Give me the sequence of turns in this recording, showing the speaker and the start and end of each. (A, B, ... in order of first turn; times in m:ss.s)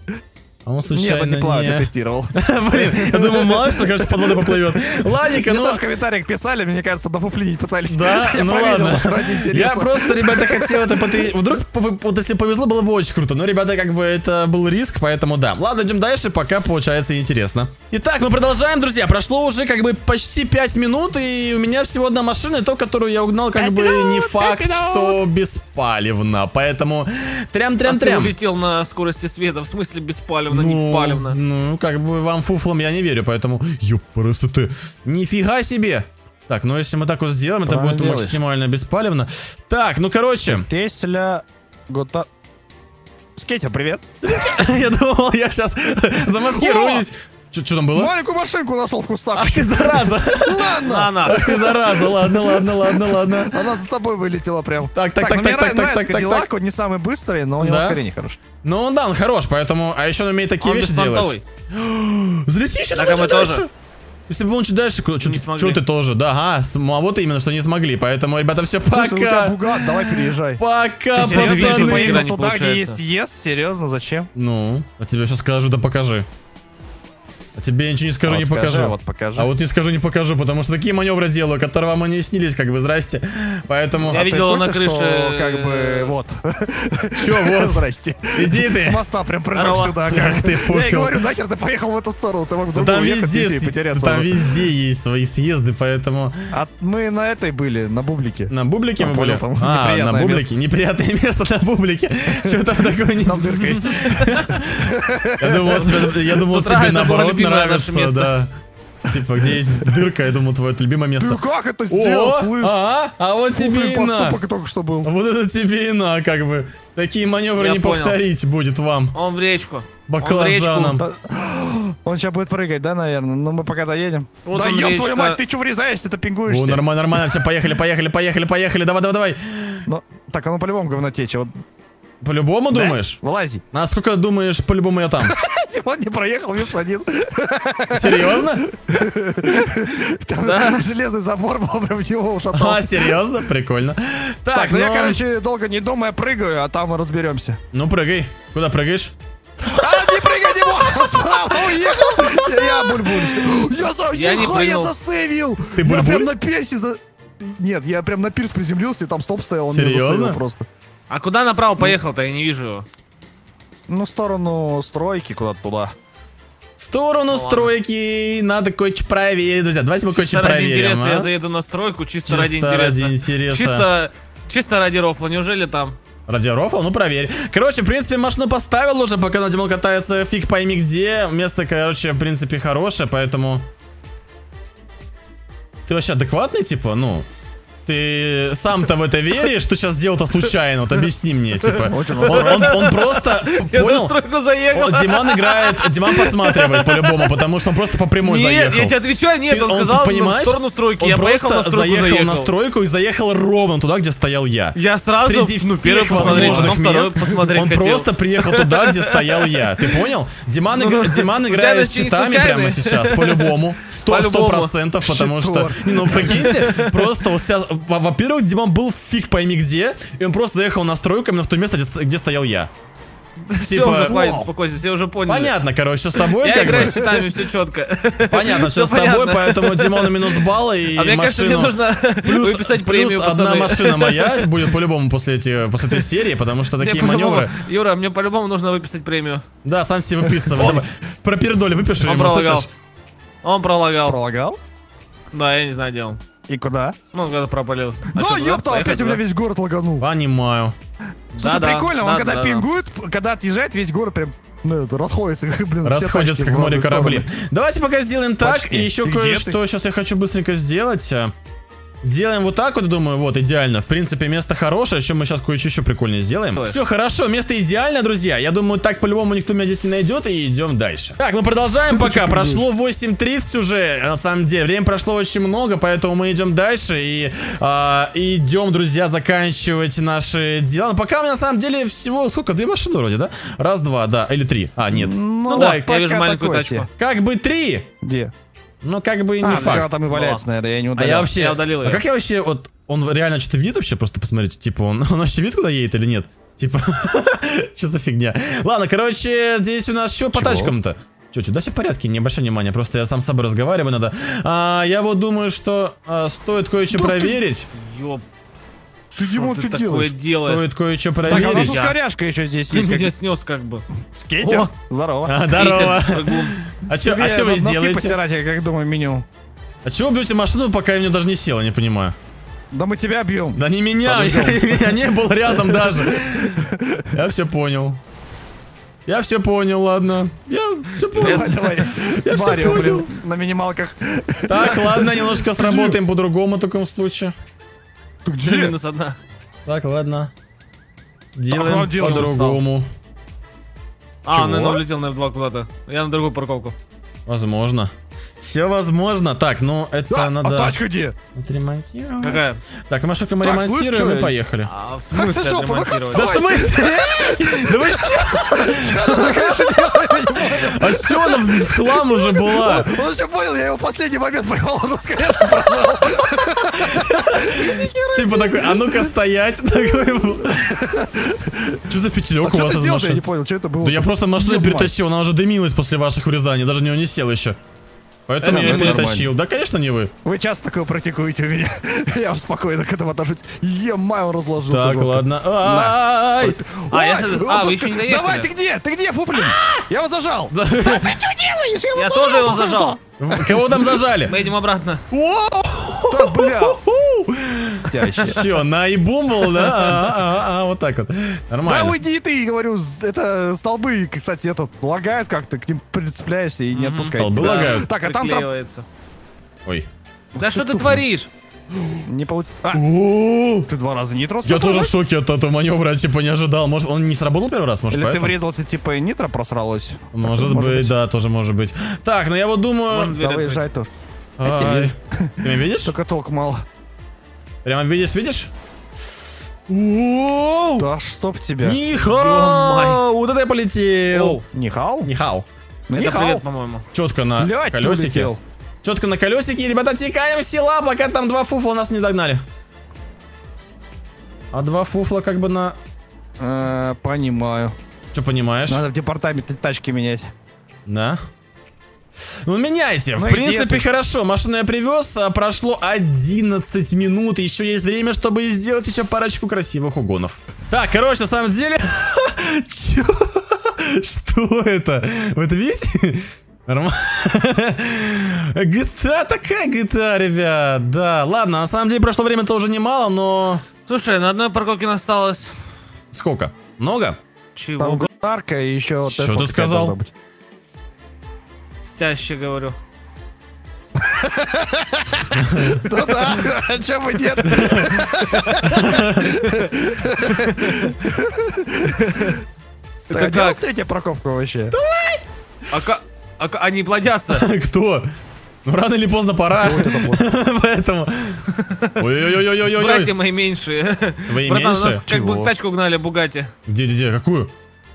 0:00.6-0:05.8 A
0:00.9-0:11.3 B
0:07.9-0:28.3 A
0:23.6-0:25.2 B
0:27.8-0:31.4 C
0:30.5-0:40.7 A
0:37.6-0:38.4 B
0:40.5-0:42.3 B
0:43.4-0:44.0 B
0:44.2-0:48.1 A
0:46.5-0:47.0 B
0:47.9-0:58.4 B
0:49.3-0:53.7 A
0:50.8-0:51.4 C
0:54.9-0:56.5 A
0:57.6-0:58.0 A
0:58.6-1:03.7 A
1:00.6-1:01.4 C
1:02.9-1:03.6 C
1:04.3-1:12.2 A
1:05.2-1:05.8 C
1:08.9-1:10.6 B
1:11.1-1:13.0 C
1:11.1-1:14.3 B
1:14.3-1:16.2 A
1:17.6-1:24.2 A
1:18.2-1:19.5 B
1:24.0-1:34.6 B
1:24.1-1:26.1 C
1:27.2-1:29.0 A
1:29.5-1:30.2 C
1:30.1-1:31.2 A
1:32.7-1:36.3 A
1:36.5-1:40.5 B
1:38.5-1:48.5 A
1:43.2-1:46.1 B
1:44.0-1:44.4 C
1:46.3-1:48.3 C
1:49.1-1:54.4 A
1:51.2-1:52.8 B
1:53.5-1:55.1 B
1:55.0-1:59.2 A
1:57.6-1:58.2 C
1:59.1-2:01.0 C
2:00.1-2:01.0 A
2:01.0-2:07.4 B
2:04.4-2:05.4 C
2:06.5-2:09.8 A
2:09.8-2:11.5 B
2:12.2-2:13.2 A
2:12.7-2:13.6 B
2:13.7-2:15.3 A
2:15.2-2:23.2 B
2:17.9-2:18.6 A
2:20.4-2:20.8 C
2:22.5-2:25.2 A
2:24.5-2:27.6 B
2:27.7-2:29.1 A
2:29.6-2:40.6 B
2:32.2-2:33.3 A
2:34.1-2:34.9 C
2:35.7-2:36.3 A
2:39.7-2:40.4 A
2:41.1-2:42.8 C
2:43.9-2:45.9 B
2:46.8-2:51.3 A
2:47.3-2:47.7 C
2:50.1-2:56.0 C
2:52.2-2:53.8 A
2:56.3-3:03.6 A
3:05.8-3:07.2 A
3:07.8-3:14.2 A
3:11.9-3:12.8 B
3:12.0-3:17.4 C
3:14.7-3:42.7 A
3:18.2-3:22.5 C
3:24.7-3:30.1 C
3:26.1-3:26.8 B
3:30.7-3:34.7 C
3:35.0-3:36.5 B
3:36.2-3:37.1 C
3:43.5-3:45.6 C
3:43.6-3:44.4 A
3:44.1-3:44.5 B
3:45.2-3:47.0 A
3:46.1-3:54.7 C
3:48.3-3:57.6 A
3:56.8-3:59.4 C
3:59.6-4:02.7 A
4:00.4-4:00.8 B
4:02.0-4:02.7 C
4:03.4-4:04.2 C
4:04.0-4:04.6 B
4:05.3-4:06.2 C
4:06.5-4:07.0 B
4:07.1-4:09.2 C
4:08.1-4:10.0 B
4:10.0-4:10.7 A
4:11.3-4:12.7 C
4:11.3-4:17.3 B
4:15.8-4:21.3 A
4:18.4-4:19.6 B
4:22.0-4:45.8 A
4:31.9-4:32.6 B
4:44.9-4:46.9 B
4:45.5-4:46.9 C
4:47.0-4:47.9 A
4:48.0-4:48.3 B
4:48.8-4:49.9 A
4:49.4-4:51.3 B
4:49.5-4:50.4 C
4:51.0-5:07.7 A
4:51.3-4:52.0 C
5:00.3-5:00.7 B
5:06.9-5:07.4 B
5:07.7-5:08.2 C
5:09.1-5:10.7 C
5:09.1-5:10.2 B
5:10.4-5:11.8 A
5:11.2-5:12.0 C
5:11.3-5:13.1 B
5:12.7-5:13.8 C
5:14.1-5:15.3 B
5:14.4-5:14.7 C
5:15.2-5:18.2 A
5:15.4-5:16.5 C
5:16.9-5:19.2 B
5:19.8-5:22.1 A
5:22.7-5:27.1 B
5:23.6-5:28.0 A
5:29.1-5:33.1 A
5:31.1-5:36.0 B
5:31.1-5:31.6 C
5:34.5-5:37.3 A
5:38.2-5:38.8 B
5:38.4-5:39.2 C
5:39.6-5:40.3 A
5:41.3-5:42.9 A
5:41.5-5:42.6 B
5:44.2-5:46.7 C
5:44.3-5:44.8 B
5:47.2-5:50.8 A
5:50.1-5:51.1 B
5:51.4-5:54.7 A
5:52.2-5:52.6 C
5:53.4-5:54.3 B
5:54.6-5:56.3 C
5:55.1-6:09.1 B
5:56.1-6:03.0 A
6:06.8-6:10.9 A
6:10.6-6:11.8 B
6:11.9-6:13.2 A
6:12.4-6:14.9 B
6:13.8-6:17.6 A
6:18.3-6:20.1 A
6:18.4-6:19.1 C
6:18.4-6:19.3 B
6:20.2-6:33.9 B
6:24.6-6:26.6 A
6:26.9-6:28.5 C
6:29.4-6:29.8 A
6:30.5-6:31.2 A
6:31.9-6:33.0 C
6:33.2-6:34.4 A
6:34.3-6:35.0 C
6:35.1-6:42.0 A
6:36.1-6:36.8 B
6:37.7-6:38.5 B
6:41.6-6:48.5 B
6:46.7-6:48.8 C
6:47.1-6:47.9 A
6:50.3-6:51.0 B
6:50.4-6:51.3 C
6:52.0-6:52.8 B
6:52.7-6:53.7 A
6:53.7-6:54.9 B
6:54.4-6:58.3 A
6:57.9-7:00.9 B
7:00.1-7:03.2 A
7:02.9-7:03.6 C
7:03.2-7:03.9 B
7:04.4-7:05.9 A
7:04.4-7:06.6 B
7:07.6-7:08.5 A
7:09.7-7:10.9 A
7:10.8-7:11.8 B
7:11.6-7:14.4 A
7:11.9-7:13.0 C
7:14.1-7:14.4 C
7:14.5-7:15.1 B
7:15.0-7:15.4 A
7:15.9-7:16.4 B
7:15.9-7:16.8 C
7:16.9-7:18.3 A
7:17.4-7:18.4 B
7:18.8-7:22.4 A
7:24.5-7:25.8 A
7:26.4-7:27.7 B
7:28.1-7:28.8 A
7:28.7-7:30.3 B
7:30.9-7:31.2 A
7:32.4-7:53.6 A
7:33.1-7:33.8 B
7:53.9-7:55.6 C
7:56.1-7:57.2 A
7:57.6-7:58.1 C
7:57.8-8:00.1 B
7:59.0-7:59.9 A
8:01.8-8:02.8 C
8:04.0-8:12.4 B
8:05.4-8:05.8 A
8:07.5-8:08.0 A
8:08.3-8:08.7 C
8:08.6-8:09.3 A
8:10.4-8:10.9 C
8:12.1-8:12.4 C
8:13.1-8:13.6 C
8:13.1-8:14.7 B
8:14.7-8:15.2 A
8:15.7-8:17.4 C
8:17.3-8:18.1 A
8:18.6-8:21.4 A
8:19.5-8:20.2 B
8:21.6-8:26.5 C
8:22.0-8:23.1 A
8:24.3-8:25.0 A
8:25.0-8:25.5 B
8:26.7-8:27.5 A